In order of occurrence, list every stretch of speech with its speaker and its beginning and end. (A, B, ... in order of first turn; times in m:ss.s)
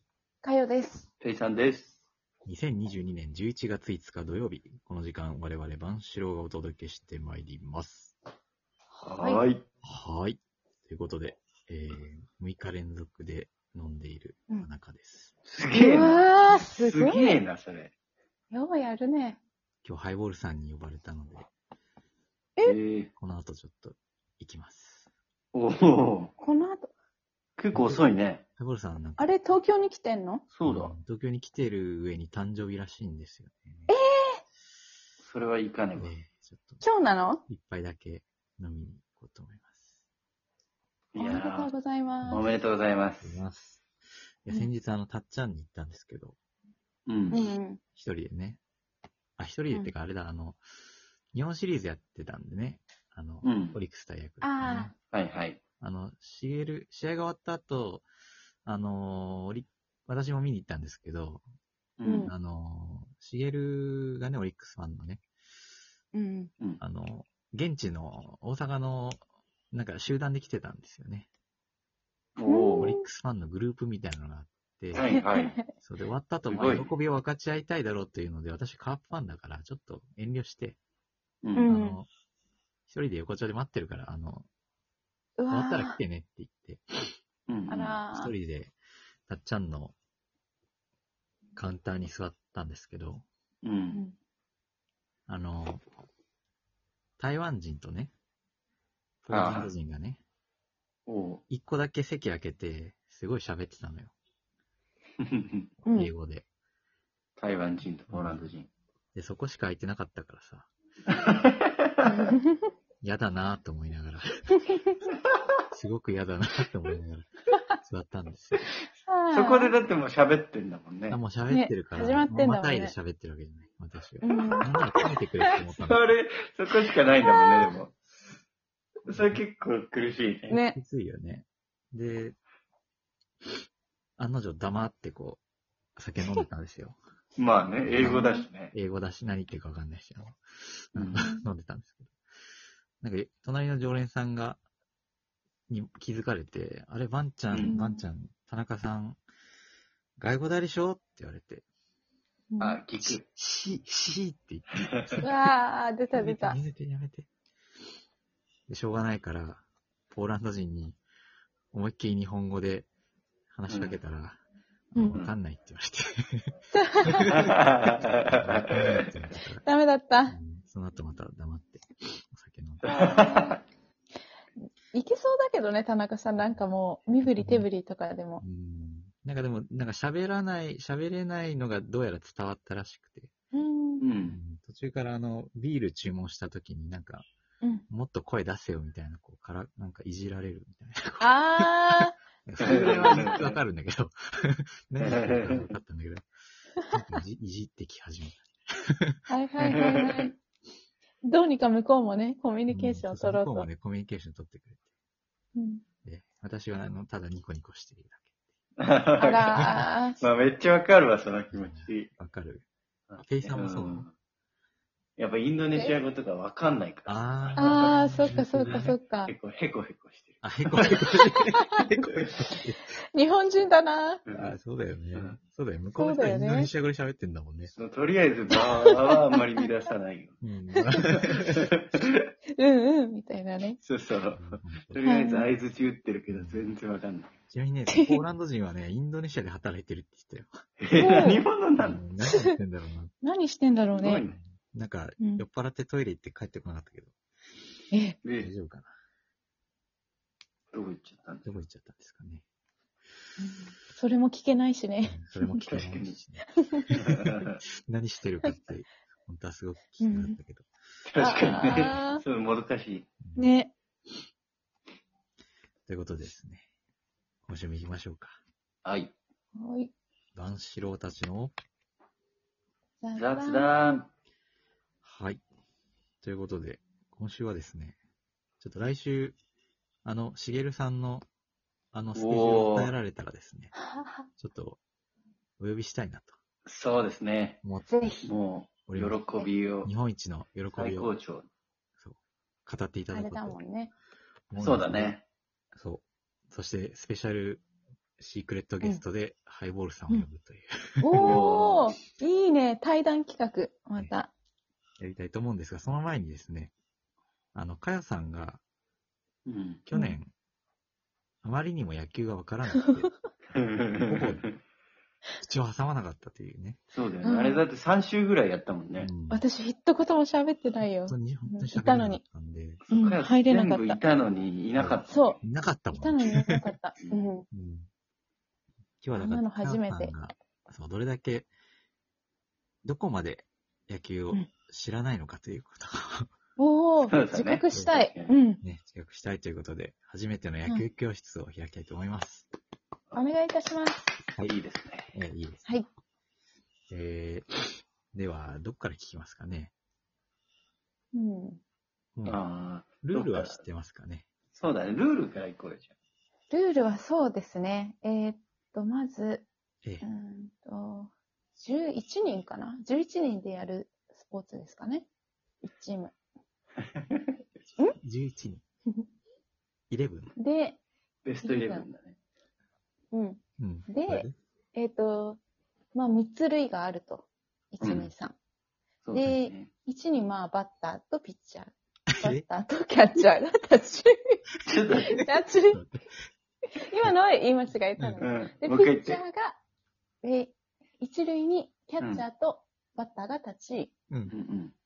0:00.4-0:01.1 A
0:01.2-0:02.0 B
0:02.4-0:08.2 C
0:09.0-0:09.4 A
0:09.0-0:09.6 B
0:09.8-0:15.3 C
0:15.5-0:17.9 B
0:15.7-0:17.4 A
0:18.5-0:19.4 A
0:19.8-0:21.5 C
0:22.6-0:23.1 B
0:23.2-0:25.1 C
0:25.5-0:26.3 B
0:26.4-0:26.9 A
0:27.6-0:28.4 B
0:27.7-0:29.4 C
0:29.2-0:30.5 A
0:30.5-0:31.0 B
0:30.6-0:33.9 C
0:33.9-0:34.4 A
0:35.2-0:36.1 B
0:36.0-0:36.8 C
0:36.8-0:37.4 A
0:37.5-0:39.9 C
0:41.1-0:41.7 B
0:41.2-0:42.5 A
0:42.2-0:42.5 C
0:42.3-0:43.4 B
0:43.2-0:43.8 C
0:44.4-0:46.4 C
0:47.1-0:47.4 B
0:47.3-0:47.8 A
0:48.0-0:48.6 C
0:49.4-0:50.6 C
0:51.3-0:54.9 C
0:53.4-0:53.8 B
0:54.4-0:55.0 A
0:55.1-0:55.6 B
0:55.8-0:58.0 C
0:58.6-1:01.4 C
1:02.0-1:02.3 B
1:02.0-1:02.3 A
1:02.2-1:05.2 C
1:06.1-1:06.5 A
1:06.8-1:09.2 C
1:09.7-1:11.3 C
1:12.4-1:12.9 B
1:12.4-1:13.1 A
1:12.8-1:15.0 C
1:14.9-1:15.6 B
1:15.0-1:15.7 A
1:15.8-1:20.8 C
1:16.5-1:16.9 B
1:21.6-1:22.0 A
1:21.7-1:22.1 C
1:22.9-1:24.5 C
1:25.4-1:26.0 A
1:25.5-1:27.1 C
1:27.5-1:27.8 B
1:27.7-1:28.3 A
1:27.7-1:28.7 C
1:29.3-1:30.0 C
1:31.6-1:33.3 C
1:33.6-1:34.0 B
1:35.3-1:35.9 C
1:37.2-1:38.1 C
1:39.2-1:40.2 C
1:39.3-1:39.7 B
1:41.1-1:41.4 B
1:41.5-1:44.1 C
1:45.2-1:45.7 B
1:45.8-1:46.1 A
1:45.9-1:46.5 C
1:47.4-1:48.7 B
1:48.1-1:48.4 C
1:49.1-1:50.7 C
1:51.1-1:52.1 B
1:52.0-1:52.7 A
1:53.0-1:54.5 C
1:55.7-1:58.6 C
1:59.0-1:59.8 A
1:59.3-2:01.2 B
2:01.1-2:06.0 C
2:01.5-2:03.0 A
2:04.2-2:05.0 A
2:05.8-2:08.0 B
2:07.2-2:07.7 A
2:09.1-2:10.6 B
2:09.1-2:09.4 C
2:10.5-2:10.8 A
2:10.7-2:12.4 C
2:14.2-2:15.4 C
2:16.0-2:17.0 C
2:17.4-2:18.7 B
2:17.8-2:20.4 C
2:18.0-2:18.5 A
2:20.9-2:22.1 C
2:21.0-2:21.3 B
2:21.2-2:21.5 A
2:23.0-2:24.6 C
2:25.7-2:29.2 C
2:27.6-2:28.0 A
2:30.2-2:31.7 C
2:32.5-2:32.8 A
2:32.6-2:33.2 B
2:33.0-2:35.5 C
2:35.2-2:36.6 A
2:36.2-2:37.3 C
2:38.7-2:41.0 C
2:41.7-2:42.9 C
2:43.5-2:44.4 C
2:43.7-2:44.0 B
2:44.9-2:46.5 C
2:45.0-2:45.2 A
2:46.8-2:47.4 A
2:47.0-2:47.6 C
2:47.3-2:49.1 B
2:48.2-2:49.6 C
2:49.6-2:50.4 A
2:50.3-2:53.2 C
2:52.8-2:53.6 B
2:52.9-2:53.6 A
2:54.9-2:58.4 A
2:57.2-2:57.7 C
2:58.4-3:03.3 C
3:03.5-3:04.1 A
3:04.0-3:04.4 B
3:04.3-3:07.3 C
3:07.9-3:16.3 C
3:11.2-3:12.2 A
3:12.6-3:13.5 B
3:12.7-3:13.2 A
3:15.0-3:15.7 B
3:16.9-3:19.2 C
3:19.3-3:20.4 A
3:19.7-3:20.3 B
3:21.2-3:23.7 A
3:22.7-3:24.9 C
3:25.6-3:25.8 A
3:26.0-3:28.3 C
3:28.8-3:32.1 B
3:29.2-3:30.2 A
3:29.6-3:29.9 C
3:31.5-3:32.7 C
3:33.1-3:34.1 B
3:33.2-3:34.1 C
3:35.2-3:41.1 B
3:37.1-3:38.9 C
3:37.6-3:39.3 A
3:40.4-3:42.9 C
3:41.4-3:41.8 A
3:43.0-3:44.2 A
3:44.3-3:44.6 B
3:44.3-3:47.7 C
3:45.1-3:45.4 B
3:45.9-3:46.7 A
3:47.7-3:50.4 B
3:48.6-3:48.9 A
3:50.4-3:51.7 C
3:50.8-3:51.0 A
3:51.1-3:52.2 B
3:52.6-3:53.8 A
3:53.8-3:57.3 B
3:54.4-3:55.0 C
3:55.0-3:55.5 A
3:56.3-3:56.7 C
3:57.5-4:00.5 C
3:57.9-3:58.2 A
4:00.8-4:02.0 B
4:01.0-4:01.5 A
4:01.8-4:03.1 C
4:03.2-4:04.2 A
4:03.9-4:04.4 B
4:04.3-4:07.1 C
4:07.9-4:08.2 A
4:08.2-4:08.5 B
4:08.4-4:08.9 C
4:10.7-4:11.5 B
4:11.4-4:12.4 C
4:13.4-4:15.3 A
4:15.0-4:20.7 C
4:15.6-4:16.2 B
4:16.9-4:17.6 B
4:20.0-4:20.4 A
4:21.1-4:23.1 B
4:21.2-4:22.2 A
4:23.2-4:23.5 C
4:23.4-4:23.7 A
4:25.9-4:26.7 C
4:27.5-4:28.4 C
4:28.8-4:29.1 B
4:29.6-4:29.9 A
4:30.4-4:31.5 C
4:33.0-4:33.9 A
4:33.2-4:34.1 B
4:35.0-4:35.4 C
4:36.2-4:38.0 C
4:38.6-4:39.4 C
4:40.0-4:41.3 C
4:41.9-4:43.7 C
4:42.2-4:42.9 B
4:43.8-4:44.3 A
4:44.4-4:44.8 C
4:45.6-4:46.4 C
4:46.7-4:47.6 B
4:47.6-4:48.1 C
4:47.9-4:48.3 A
4:48.2-4:49.9 B
4:48.9-4:49.2 C
4:49.8-4:51.1 C
4:50.7-4:51.5 B
4:52.0-4:53.6 C
4:53.1-4:53.9 A
4:54.5-4:55.2 C
4:54.6-4:55.2 B
4:55.8-4:57.6 C
4:58.2-5:01.4 C
5:01.0-5:04.3 A
5:01.2-5:01.9 B
5:05.0-5:06.7 C
5:07.5-5:08.6 C
5:09.5-5:09.8 B
5:09.9-5:10.3 C
5:11.4-5:13.1 C
5:13.5-5:14.6 B
5:14.1-5:14.4 C
5:15.4-5:16.8 C
5:16.9-5:19.1 B
5:17.2-5:17.6 A
5:19.0-5:19.4 C
5:19.3-5:22.2 A
5:21.1-5:22.8 C
5:22.9-5:24.0 A
5:22.9-5:25.4 B
5:24.8-5:26.7 C
5:25.1-5:27.5 A
5:27.5-5:27.9 C
5:29.0-5:31.5 C
5:29.2-5:30.3 A
5:32.8-5:36.3 C
5:36.6-5:38.6 A
5:37.0-5:38.4 B
5:38.6-5:42.5 C
5:43.2-5:44.1 A
5:44.5-5:45.1 B
5:45.1-5:45.7 C
5:46.9-5:47.5 C
5:48.1-5:49.7 C
5:51.1-5:51.6 A
5:52.3-5:53.6 B
5:53.0-5:54.3 C
5:54.5-5:55.9 B
5:56.5-5:59.5 A
6:00.0-6:05.1 A
6:05.6-6:06.1 A
6:06.8-6:07.3 B
6:08.0-6:08.6 C
6:09.9-6:10.3 C
6:10.4-6:10.8 A
6:11.2-6:12.2 B
6:11.4-6:11.9 A
6:13.1-6:15.4 A
6:13.6-6:14.3 C
6:15.9-6:18.4 A
6:17.8-6:18.1 B
6:19.0-6:19.7 B
6:19.1-6:24.4 A
6:22.1-6:22.4 C
6:24.7-6:25.2 B
6:25.1-6:25.8 A
6:25.5-6:26.0 C
6:26.8-6:29.6 A
6:28.0-6:28.2 C
6:28.2-6:29.2 B
6:30.2-6:33.9 A
6:32.0-6:32.2 B
6:34.3-6:34.7 B